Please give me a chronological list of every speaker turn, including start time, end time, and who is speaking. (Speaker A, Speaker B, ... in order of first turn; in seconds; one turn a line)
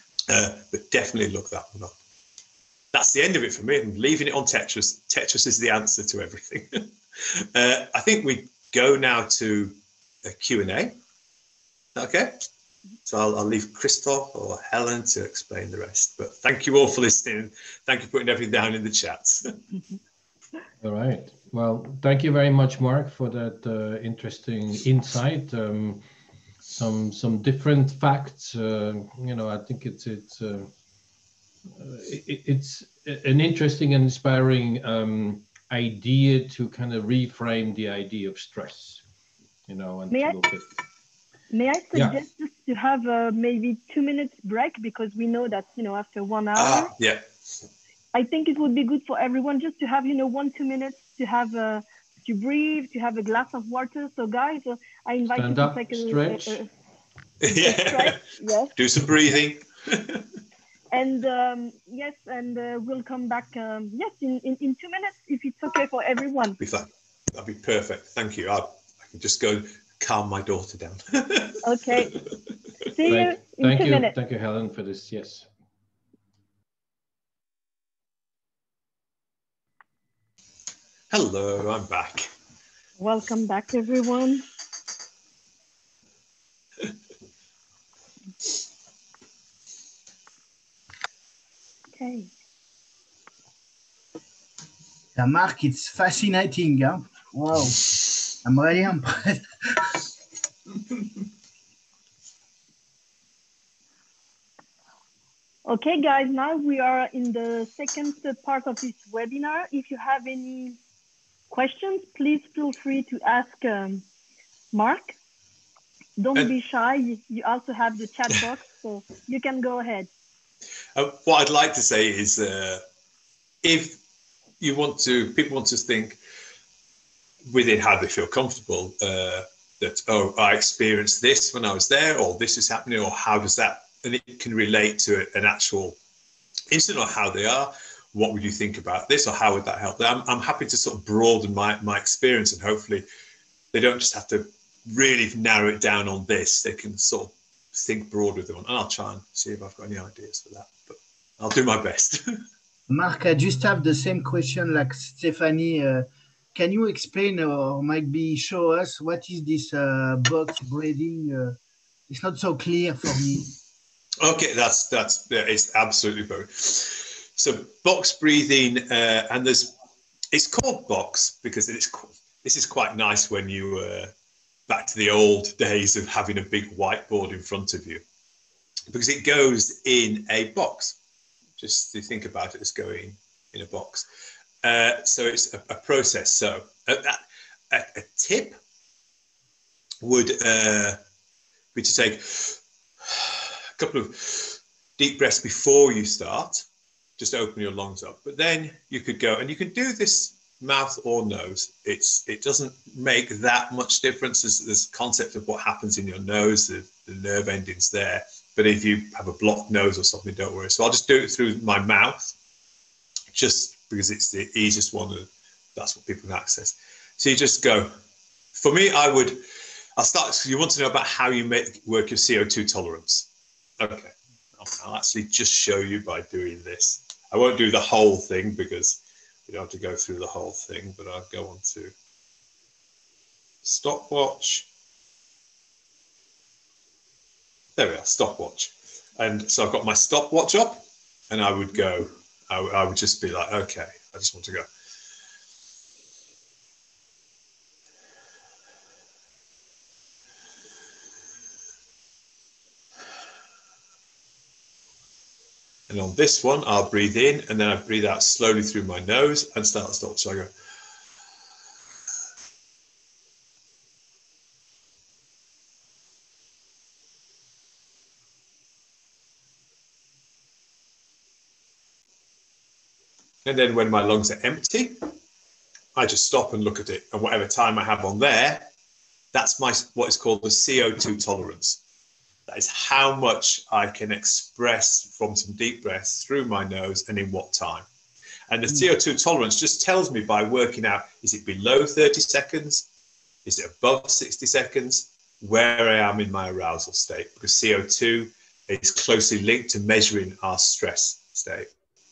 Speaker A: 0.3-2.0
Speaker A: 2.9-11.0
Speaker A: 11.9-12.4
Speaker A: 13.1-19.6
Speaker B: 20.8-26.0
Speaker B: 26.7-30.7
Speaker B: 31.7-39.0
Speaker B: 39.7-40.6
Speaker C: 40.1-40.4
Speaker C: 41.5-46.9
Speaker B: 41.9-42.2
Speaker A: 46.6-47.3
Speaker C: 48.1-56.7
Speaker B: 55.3-56.6
Speaker A: 57.4-58.2
Speaker C: 57.5-58.7
Speaker A: 58.8-60.2
Speaker C: 60.9-66.6
Speaker A: 66.6-71.6
Speaker C: 71.6-72.2
Speaker C: 72.9-74.2
Speaker B: 73.0-75.5
Speaker A: 81.1-82.3
Speaker C: 83.0-84.5
Speaker C: 92.0-92.3
Speaker D: 95.2-100.0
Speaker C: 105.7-110.8
Speaker C: 111.5-114.0
Speaker C: 114.7-115.2
Speaker C: 116.2-120.1
Speaker A: 121.0-122.8
Speaker A: 123.6-124.0
Speaker A: 124.6-126.2
Speaker A: 127.5-136.0
Speaker A: 136.7-143.1
Speaker A: 143.7-152.4
Speaker D: 152.9-161.6
Speaker D: 162.1-163.5
Speaker A: 164.2-169.7
Speaker A: 170.3-174.1
Speaker A: 174.7-178.0
Speaker A: 178.9-181.0
Speaker A: 181.6-184.1
Speaker A: 184.6-188.6
Speaker A: 190.0-191.0
Speaker A: 191.8-196.7
Speaker A: 197.2-212.3
Speaker A: 213.3-217.9
Speaker A: 218.6-219.4
Speaker A: 220.0-223.3
Speaker A: 223.8-231.9
Speaker A: 233.6-234.7
Speaker A: 237.8-244.7
Speaker A: 255.9-260.5
Speaker A: 273.4-275.1
Speaker A: 275.9-278.7
Speaker A: 279.3-281.8
Speaker A: 282.5-287.9
Speaker A: 288.5-292.9
Speaker A: 293.5-301.7